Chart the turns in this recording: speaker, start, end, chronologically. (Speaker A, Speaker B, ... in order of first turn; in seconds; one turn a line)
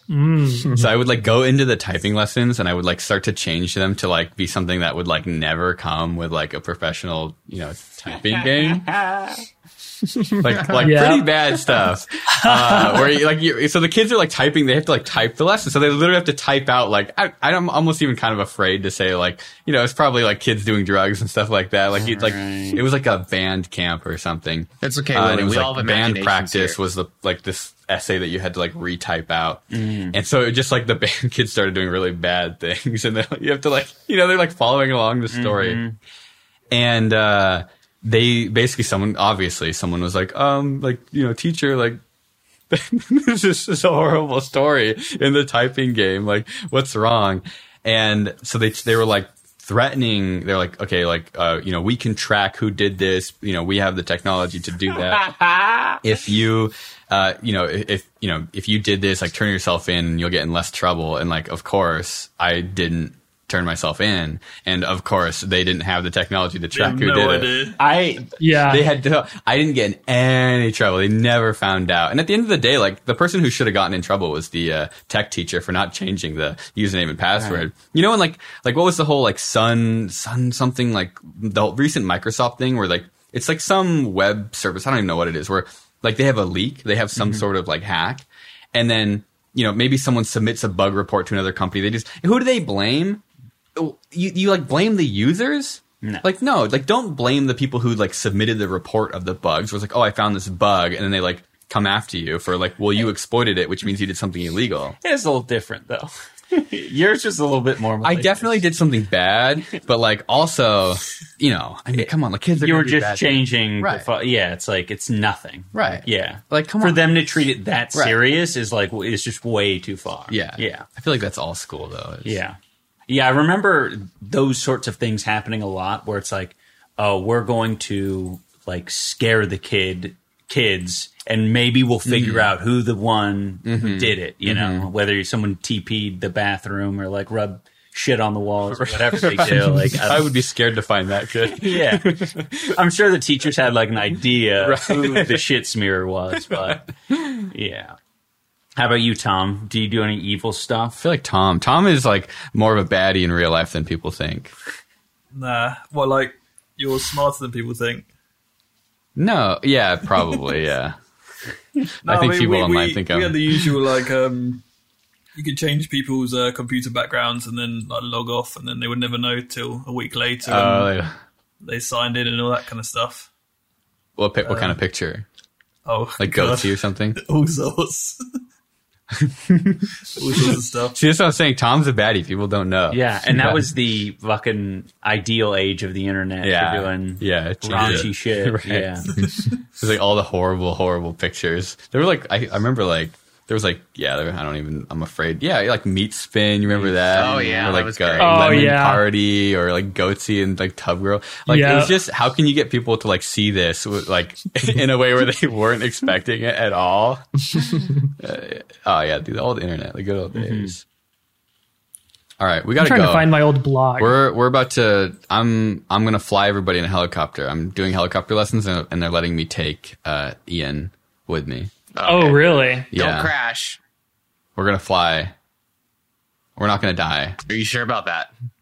Speaker A: 0.1-0.8
Speaker B: 0.6-8.9
Speaker C: 8.3-9.4
Speaker B: 10.3-35.8
Speaker A: 10.8-11.3
Speaker A: 12.3-13.1
Speaker C: 21.9-22.8
Speaker D: 24.8-26.8
Speaker C: 29.7-30.1
Speaker C: 35.3-36.0
Speaker B: 36.7-42.0
Speaker B: 42.7-55.3
Speaker C: 55.1-56.0
Speaker B: 56.0-67.5
Speaker E: 66.7-68.2
Speaker C: 67.8-68.3
Speaker A: 68.4-68.9
Speaker B: 68.7-93.2
Speaker C: 77.4-77.7
Speaker C: 87.2-87.4
Speaker B: 93.8-105.0
Speaker C: 105.0-108.5
Speaker B: 108.0-114.1
Speaker C: 111.9-120.9
Speaker B: 115.7-117.1
Speaker B: 120.3-122.4
Speaker C: 122.2-122.6
Speaker C: 123.1-140.3
Speaker B: 132.0-132.5
Speaker B: 133.6-134.9
Speaker B: 138.7-142.7
Speaker C: 141.6-147.9
Speaker B: 144.6-145.4
Speaker B: 146.4-147.4
Speaker C: 148.8-151.0
Speaker B: 151.0-154.5
Speaker E: 155.3-158.1
Speaker B: 159.2-161.0
Speaker B: 162.0-163.5
Speaker E: 162.0-164.6
Speaker E: 165.3-170.9
Speaker B: 170.4-171.1
Speaker E: 171.6-173.3
Speaker B: 174.2-175.2
Speaker E: 174.4-174.8
Speaker E: 175.8-178.2
Speaker B: 176.2-177.2
Speaker B: 179.2-183.6
Speaker E: 180.1-181.0
Speaker C: 182.9-189.1
Speaker B: 186.4-210.8
Speaker E: 187.7-188.1
Speaker E: 189.1-189.6
Speaker C: 196.7-197.8
Speaker D: 197.2-198.6
Speaker A: 198.2-199.0
Speaker A: 201.5-201.9
Speaker C: 210.3-210.7
Speaker B: 212.4-213.4
Speaker A: 212.8-214.1
Speaker B: 214.0-221.7
Speaker D: 221.9-223.8
Speaker A: 222.1-222.9
Speaker B: 222.9-223.3
Speaker B: 224.6-225.3
Speaker B: 226.6-227.4
Speaker D: 227.5-228.3